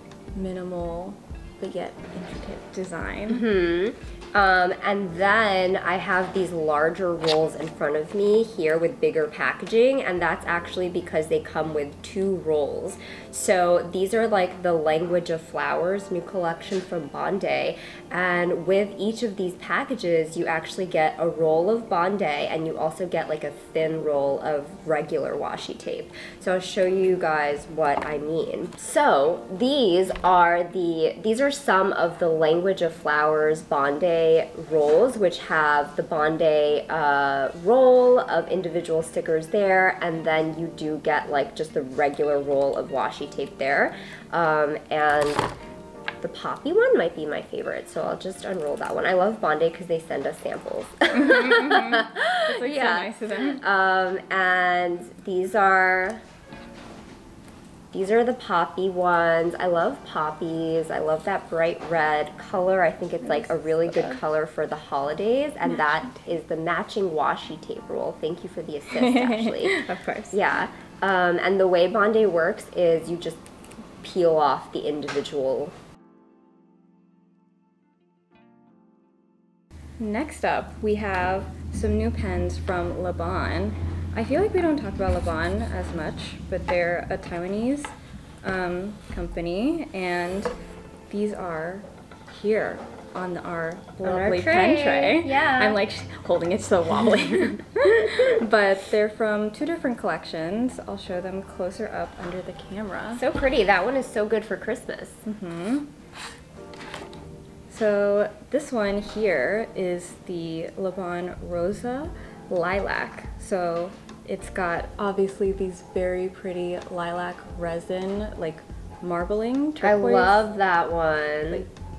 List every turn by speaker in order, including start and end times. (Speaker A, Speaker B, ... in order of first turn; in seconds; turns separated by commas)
Speaker A: 0.3-3.5, Speaker B: 3.3-45.5, Speaker B: 46.2-56.2, Speaker A: 51.1-53.6, Speaker B: 57.9-73.4, Speaker A: 63.2-64.2, Speaker A: 68.9-70.4, Speaker B: 74.0-75.7, Speaker A: 80.0-90.5, Speaker A: 91.1-103.2, Speaker B: 94.0-95.8, Speaker B: 98.1-98.3, Speaker B: 103.1-105.2, Speaker A: 105.2-105.9, Speaker A: 107.7-120.5, Speaker B: 119.8-121.7